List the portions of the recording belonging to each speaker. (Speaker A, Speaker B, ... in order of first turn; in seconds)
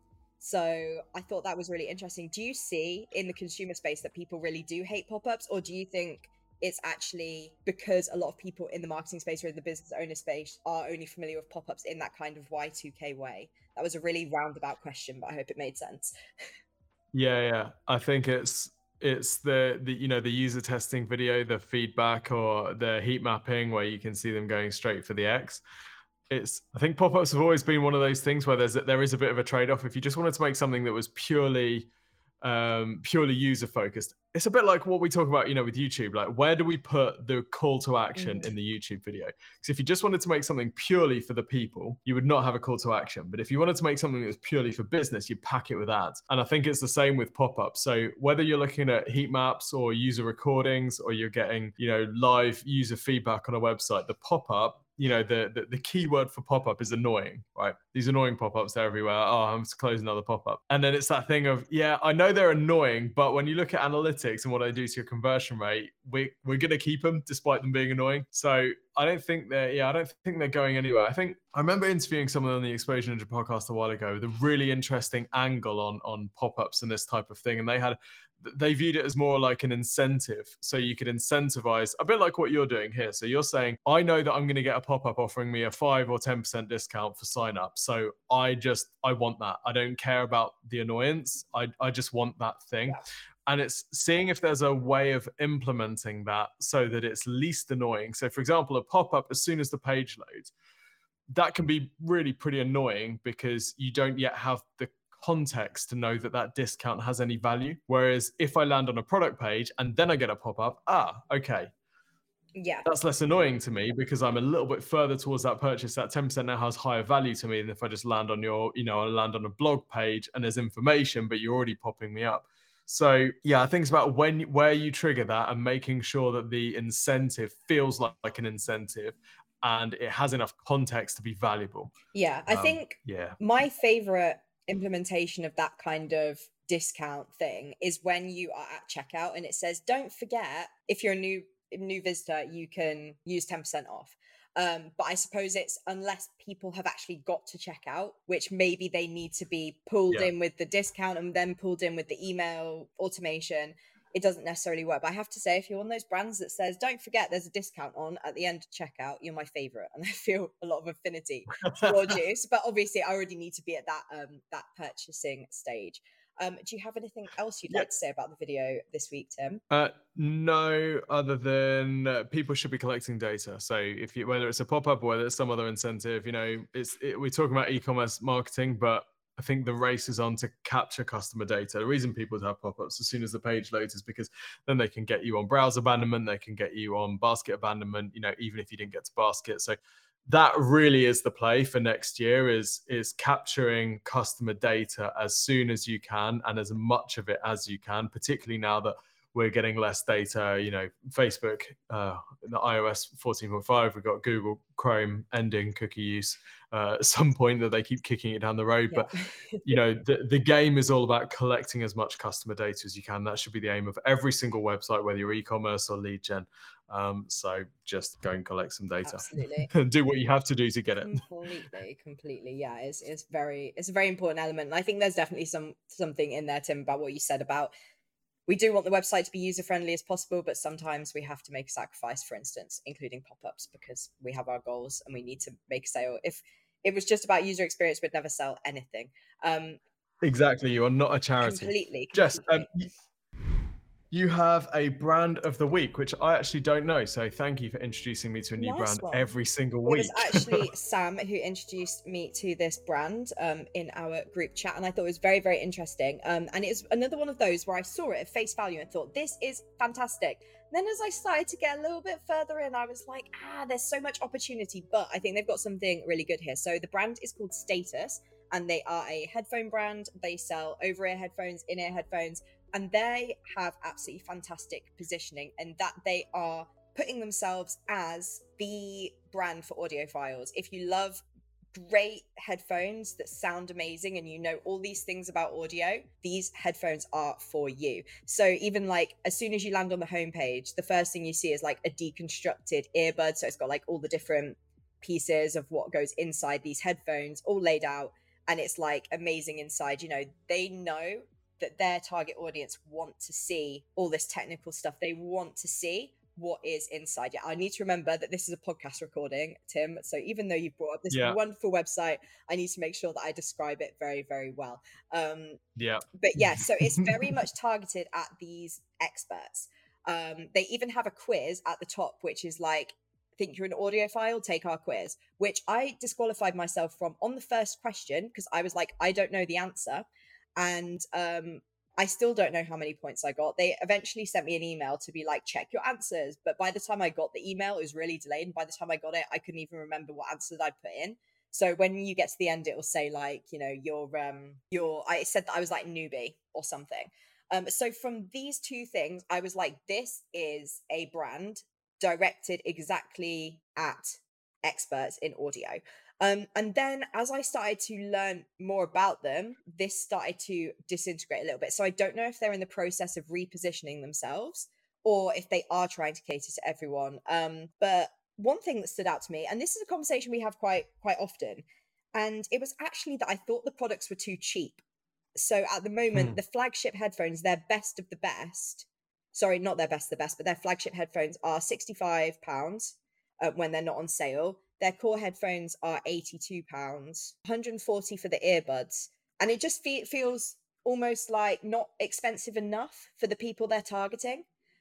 Speaker A: 0.4-16.1, 38.2-38.5, 112.6-112.9, 132.1-169.6, 208.9-209.6, 219.1-219.7, 221.1-227.7, 228.5-239.8, 241.4-242.7, 248.6-249.3, 249.9-315.6, 316.1-374.8, 375.4-394.5
Speaker B: 17.1-25.6, 26.3-31.9, 32.4-100.5, 101.3-111.7, 112.8-131.9, 132.5-133.4, 161.6-162.2, 169.7-209.1, 209.6-221.2, 240.2-242.9, 244.1-250.7, 311.1-311.4, 315.8-317.4, 376.1-376.4